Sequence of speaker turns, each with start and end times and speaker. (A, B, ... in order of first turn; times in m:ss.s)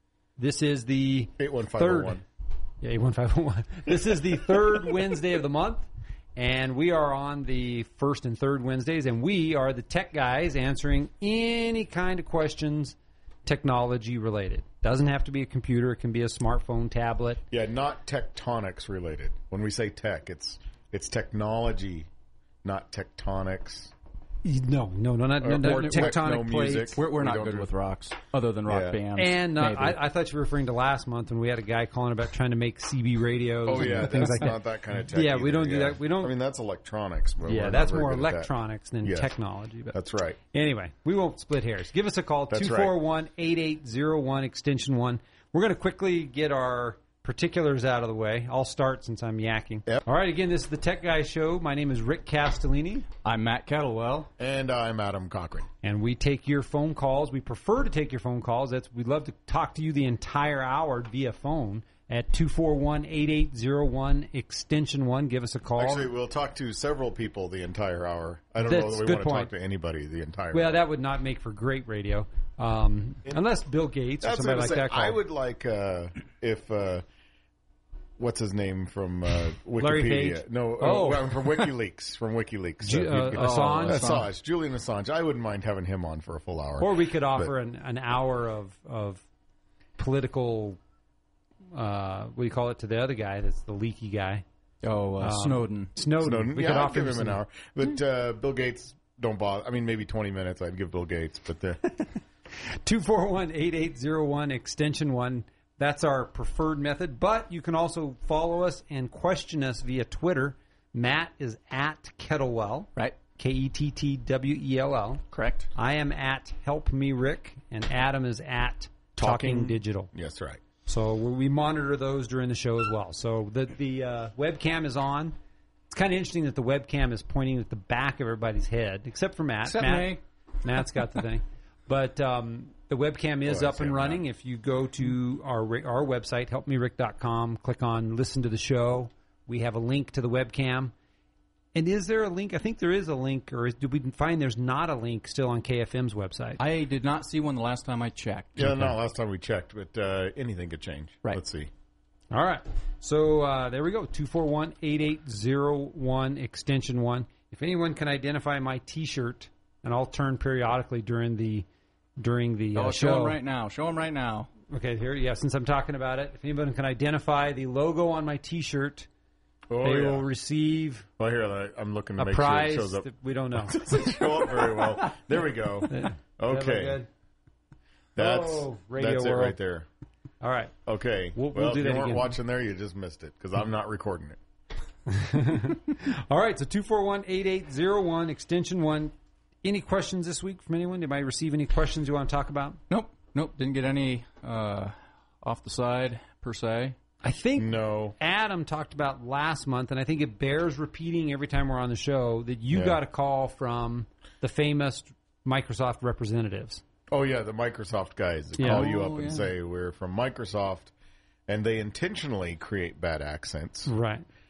0:00.4-0:02.2 A
0:01.4-0:02.2 B
0:02.8-0:17.4 A
0:17.5-0:22.1 B
0:22.6-0:23.9 B
0:24.4-0:27.0 A
0:25.4-0:27.7 B
0:27.0-0:30.0 C
0:28.7-0:29.0 B
0:29.2-0:36.3 A
0:33.6-0:38.5 B
0:37.5-0:40.0 A
0:39.0-0:39.3 B
0:39.9-0:40.4 B
0:40.5-0:53.1 A
0:42.5-0:43.0 B
0:53.2-0:54.3 C
0:54.4-0:55.7 B
0:55.8-1:06.1 A
1:05.8-1:10.7 B
1:08.6-1:09.5 A
1:10.5-1:15.2 A
1:14.2-1:17.0 B
1:18.2-1:27.5 B
1:19.8-1:21.7 A
1:22.8-1:24.2 A
1:23.3-1:24.3 C
1:26.8-1:29.2 A
1:30.0-1:30.8 A
1:31.7-1:34.4 A
1:34.8-1:35.9 C
1:35.2-1:37.4 A
1:36.2-1:41.8 B
1:42.8-1:55.2 A
1:55.3-1:55.7 C
1:55.8-2:00.1 A
1:59.2-2:00.6 B
2:00.9-2:05.4 A
2:05.9-2:20.9 A
2:09.6-2:10.2 C
2:13.5-2:14.2 B
2:21.7-2:26.6 A
2:26.6-2:28.8 C
2:28.6-2:31.7 B
2:28.6-2:28.9 A
2:32.3-2:41.7 A
2:42.2-2:43.4 A
2:42.8-2:44.5 C
2:44.7-2:49.1 A
2:49.7-2:50.3 B
2:49.8-2:51.1 A
2:51.2-2:57.0 B
2:52.2-2:53.9 A
2:55.9-2:57.1 A
2:58.2-2:59.9 B
2:58.2-2:59.6 A
3:00.4-3:00.7 A
3:00.9-3:04.4 B
3:01.4-3:02.4 A
3:05.1-3:09.1 A
3:09.6-3:12.8 A
3:12.9-3:17.0 C
3:17.2-3:26.8 A
3:17.6-3:18.2 B
3:22.7-3:23.0 B
3:27.1-3:30.9 B
3:28.6-3:28.9 A
3:28.6-3:29.5 C
3:31.5-3:33.9 B
3:33.9-3:34.2 A